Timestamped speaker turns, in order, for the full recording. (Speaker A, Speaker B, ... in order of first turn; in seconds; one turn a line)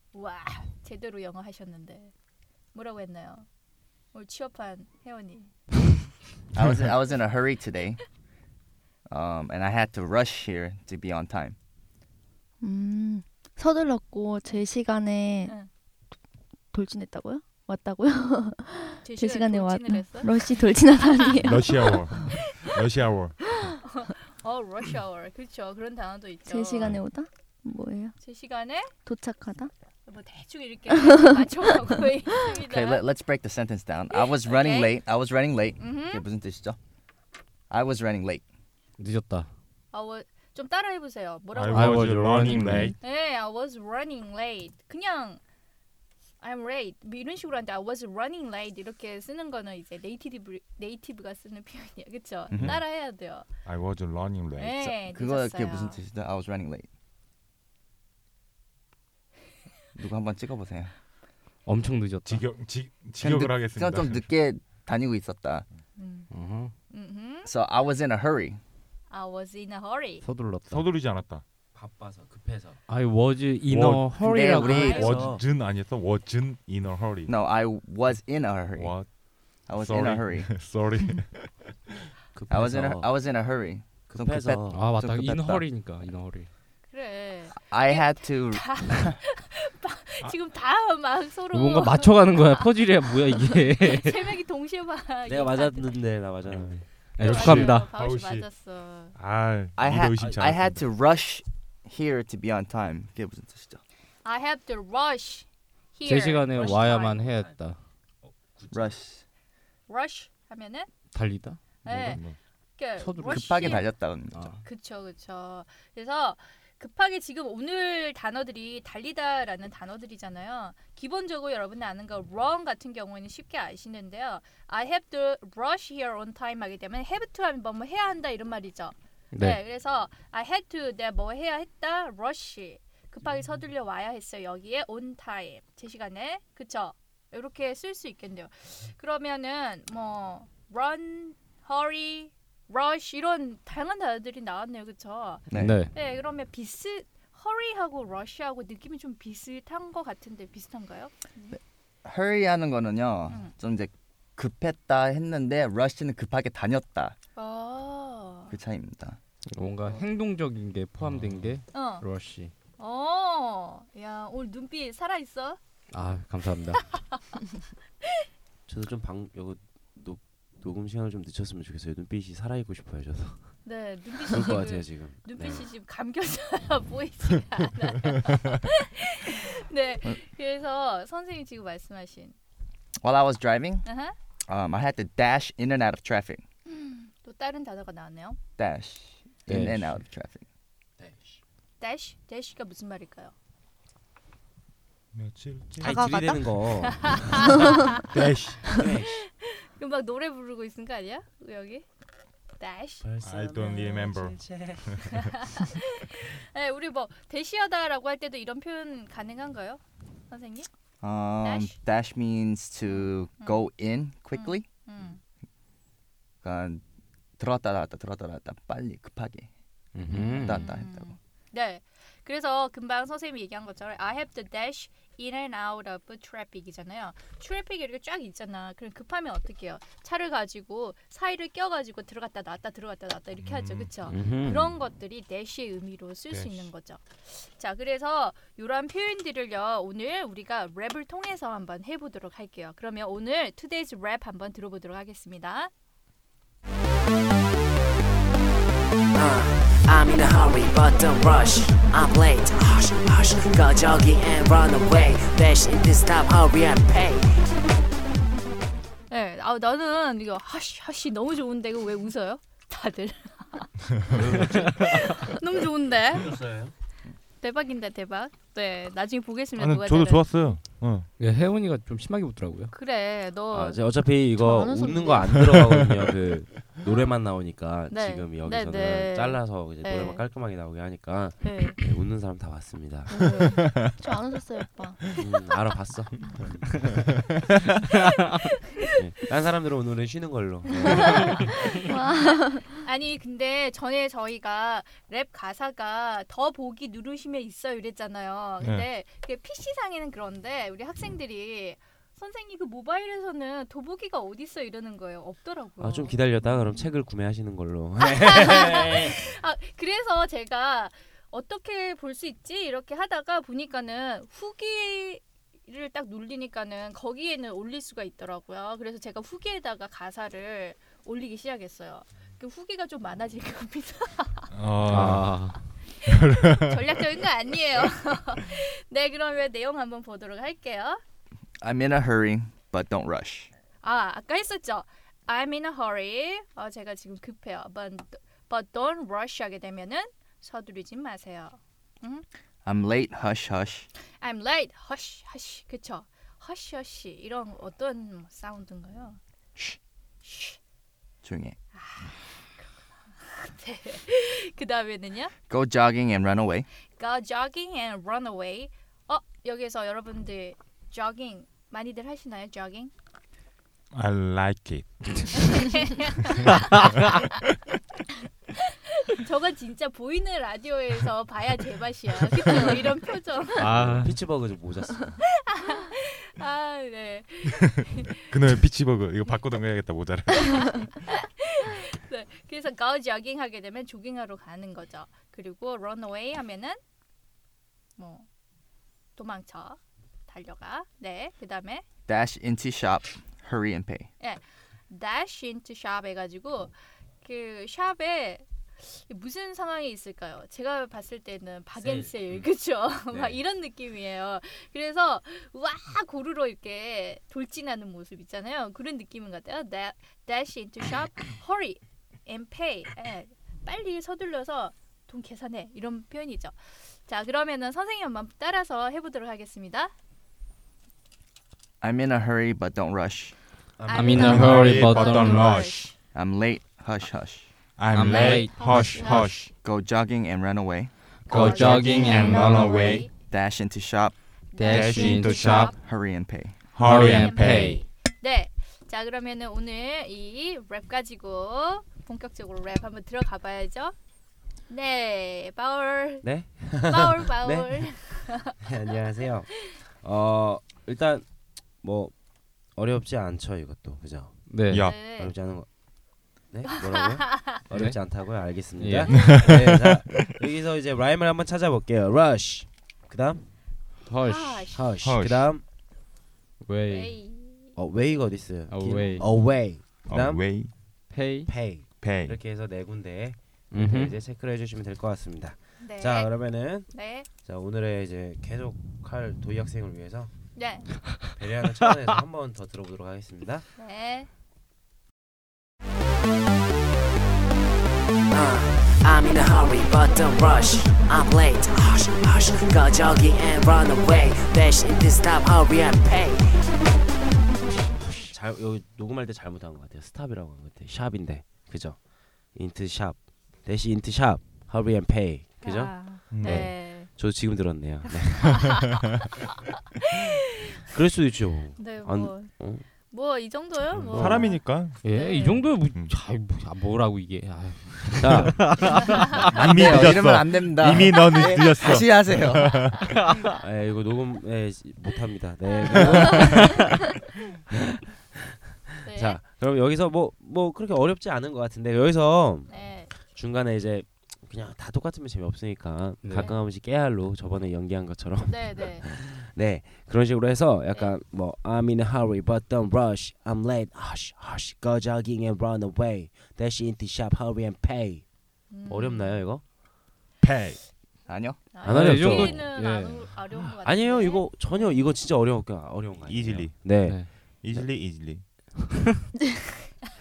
Speaker A: 0.1-2.1
Speaker A: 2.7-3.5
Speaker A: 4.1-5.5
Speaker B: 6.5-8.0
Speaker B: 9.1-11.6
Speaker C: 12.6-15.5
Speaker C: 16.7-22.3
Speaker A: 19.0-21.3
Speaker D: 21.4-23.4
Speaker A: 22.2-22.7
Speaker A: 23.8-26.9
Speaker C: 26.5-28.1
Speaker A: 28.2-28.9
Speaker C: 29.0-29.7
Speaker A: 30.1-33.0
Speaker C: 30.9-31.9
Speaker B: 32.5-36.8
Speaker A: 34.1-35.0
Speaker A: 35.8-36.2
Speaker B: 37.7-38.4
Speaker E: 39.0-39.5
Speaker A: 39.9-45.4
Speaker D: 41.5-43.0
Speaker E: 41.7-42.9
Speaker A: 46.4-53.5
Speaker D: 52.5-52.9
Speaker D: 53.6-54.9
Speaker A: 54.6-56.0
Speaker B: 55.0-56.9
Speaker B: 59.9-60.9
Speaker E: 61.6-62.5
Speaker D: 62.2-64.2
Speaker B: 63.2-65.6
Speaker A: 66.0-66.3
Speaker E: 66.3-66.7
Speaker A: 66.9-67.5
Speaker B: 67.4-68.6
Speaker A: 69.1-70.2
Speaker E: 70.2-70.8
Speaker D: 70.7-71.4
Speaker F: 71.7-72.8
Speaker E: 72.9-75.1
Speaker D: 73.7-74.1
Speaker B: 74.2-75.2
Speaker A: 74.7-75.2
Speaker D: 74.8-77.3
Speaker F: 74.9-75.4
Speaker B: 77.3-78.9
Speaker D: 78.8-79.1
Speaker B: 79.7-80.5
Speaker D: 79.7-81.6
Speaker F: 82.3-83.1
Speaker B: 82.5-85.6
Speaker F: 84.1-84.8
Speaker E: 84.7-86.5
Speaker A: 86.9-95.9
Speaker B: 87.5-89.2
Speaker E: 91.5-94.2
Speaker F: 95.3-97.5
Speaker D: 96.4-98.5
Speaker E: 97.2-97.9
Speaker A: 97.2-99.1
Speaker D: 99.1-100.8
Speaker B: 99.8-103.8
Speaker A: 104.2-107.2
Speaker E: 106.0-107.8
Speaker F: 106.5-107.6
Speaker F: 108.2-108.9
Speaker B: 108.7-109.2
Speaker A: 109.9-110.9
Speaker E: 111.1-112.2
Speaker A: 111.8-112.2
Speaker D: 112.0-112.4
Speaker A: 112.8-113.9
Speaker E: 113.0-114.6
Speaker B: 113.3-114.4
Speaker A: 114.6-151.6
Speaker E: 129.3-129.6
Speaker E: 145.5-145.9
Speaker B: 151.5-157.1
Speaker A: 157.3-158.6
Speaker B: 158.5-159.2
Speaker E: 159.5-162.5
Speaker D: 161.1-161.4
Speaker A: 161.7-162.0
Speaker A: 162.8-165.6
Speaker E: 165.9-166.8
Speaker A: 166.9-167.2
Speaker F: 168.7-173.6
Speaker A: 173.6-182.3
Speaker F: 174.3-175.7
Speaker B: 183.0-183.8
Speaker A: 183.8-184.1
Speaker B: 184.5-186.4
Speaker A: 186.7-188.4
Speaker B: 188.6-190.4
Speaker F: 189.5-190.0
Speaker F: 191.0-191.4
Speaker A: 191.8-193.3
Speaker D: 195.1-196.0
Speaker F: 195.8-197.6
Speaker C: 195.8-196.5
Speaker A: 197.0-197.8
Speaker C: 197.5-197.9
Speaker D: 198.1-198.7
Speaker F: 198.7-199.2
Speaker A: 199.0-201.8
Speaker A: 202.6-203.0
Speaker F: 203.0-205.1
Speaker D: 203.2-205.1
Speaker A: 205.1-210.7
Speaker B: 211.0-214.7
Speaker A: 211.4-211.8
Speaker A: 213.4-213.6
Speaker A: 214.3-215.2
Speaker B: 216.4-216.8
Speaker B: 217.4-219.5
Speaker E: 219.9-220.7
Speaker B: 220.1-221.1
Speaker A: 220.3-245.7
Speaker D: 233.4-234.0
Speaker E: 234.1-234.7
Speaker D: 236.3-236.7
Speaker G: 249.1-257.4
Speaker A: 259.1-266.4
Speaker D: 264.0-264.3
Speaker F: 264.1-265.0
Speaker F: 266.1-266.7
Speaker A: 267.4-270.2
Speaker D: 269.6-271.1
Speaker E: 271.2-272.7
Speaker A: 272.7-273.8
Speaker F: 273.5-283.1
Speaker C: 274.4-275.4
Speaker A: 277.9-280.2
Speaker A: 281.4-281.8
Speaker A: 283.1-283.6
Speaker C: 283.1-285.0
Speaker D: 283.6-283.9
Speaker F: 285.2-286.8
Speaker F: 288.9-291.5
Speaker A: 290.8-306.9
Speaker C: 291.6-292.8
Speaker D: 298.6-298.9
Speaker F: 305.8-309.2
Speaker A: 308.0-324.5
Speaker D: 324.5-325.5
Speaker E: 324.8-325.6
Speaker A: 326.0-331.0
Speaker D: 326.0-327.0
Speaker B: 331.6-333.5
Speaker A: 333.8-342.2
Speaker B: 342.6-343.9
Speaker A: 344.2-349.2
Speaker A: 350.2-350.6
Speaker B: 351.2-351.6
Speaker A: 351.7-352.6
Speaker A: 353.2-355.3
Speaker B: 355.5-356.7
Speaker A: 357.0-362.9
Speaker D: 363.9-365.8
Speaker A: 365.4-367.4
Speaker A: 368.6-373.7
Speaker E: 373.6-374.2
Speaker F: 373.6-375.2
Speaker A: 375.4-378.3
Speaker D: 378.3-380.9
Speaker A: 380.4-386.8
Speaker A: 388.0-388.3
Speaker A: 389.1-391.8
Speaker B: 392.1-394.1
Speaker A: 394.2-416.5
Speaker F: 401.8-402.1
Speaker F: 403.1-403.4
Speaker A: 417.1-419.9
Speaker B: 421.8-423.3
Speaker F: 423.8-424.3
Speaker A: 423.9-425.9
Speaker E: 423.9-425.7
Speaker D: 424.1-425.9
Speaker B: 426.1-427.5
Speaker D: 427.8-429.5
Speaker E: 427.9-429.2
Speaker A: 428.0-429.4
Speaker B: 429.6-430.9
Speaker E: 431.3-433.0
Speaker A: 431.3-433.1
Speaker D: 431.3-433.0
Speaker B: 433.1-434.1
Speaker A: 434.5-435.8
Speaker E: 434.6-435.7
Speaker D: 434.7-435.7
Speaker B: 435.7-436.6
Speaker D: 436.7-437.8
Speaker E: 436.8-437.8
Speaker A: 436.8-443.9
Speaker A: 444.7-446.2
Speaker F: 446.2-448.0
Speaker A: 446.8-448.6
Speaker F: 448.6-451.2
Speaker F: 451.8-452.1
Speaker F: 452.7-454.4
Speaker E: 454.5-454.9
Speaker D: 454.7-455.0
Speaker A: 454.7-455.3
Speaker F: 454.9-455.7
Speaker F: 456.5-463.5
Speaker A: 456.7-457.6
Speaker E: 457.7-458.0
Speaker E: 458.7-459.4
Speaker D: 459.1-460.3
Speaker E: 464.0-464.7
Speaker A: 464.2-464.9
Speaker F: 464.7-465.6
Speaker D: 465.0-465.5
Speaker E: 466.6-467.2
Speaker A: 466.9-467.7
Speaker F: 467.7-470.4
Speaker E: 468.7-469.3
Speaker D: 470.1-470.7
Speaker E: 471.1-471.5
Speaker F: 471.5-480.3
Speaker D: 472.0-472.4
Speaker E: 473.7-474.1
Speaker A: 475.8-477.3
Speaker A: 480.6-480.9
Speaker F: 481.4-483.6
Speaker A: 483.8-484.3
Speaker G: 488.3-496.6
Speaker F: 498.2-502.0
Speaker F: 502.5-508.7
Speaker A: 505.6-507.1
Speaker D: 506.3-506.7
Speaker A: 508.4-509.0
Speaker A: 510.1-510.4
Speaker F: 510.9-512.8
Speaker A: 511.8-512.5
Speaker A: 513.1-515.8
Speaker D: 514.0-515.0
Speaker F: 514.1-514.5
Speaker E: 515.0-519.8
Speaker D: 515.9-516.1
Speaker F: 518.2-518.8
Speaker D: 519.4-523.0
Speaker B: 519.5-522.9
Speaker E: 523.1-523.6
Speaker F: 523.6-527.0
Speaker A: 525.6-526.8
Speaker F: 527.7-528.4
Speaker A: 529.0-529.4
Speaker F: 529.0-548.3
Speaker A: 532.7-533.1
Speaker E: 536.2-536.5
Speaker A: 538.5-539.0
Speaker A: 548.7-549.4
Speaker F: 548.9-549.6
Speaker D: 550.4-550.8
Speaker B: 551.3-551.6
Speaker A: 551.7-555.1
Speaker F: 551.8-552.7
Speaker E: 551.9-553.3
Speaker F: 553.8-557.9
Speaker D: 556.2-558.5
Speaker E: 557.0-557.3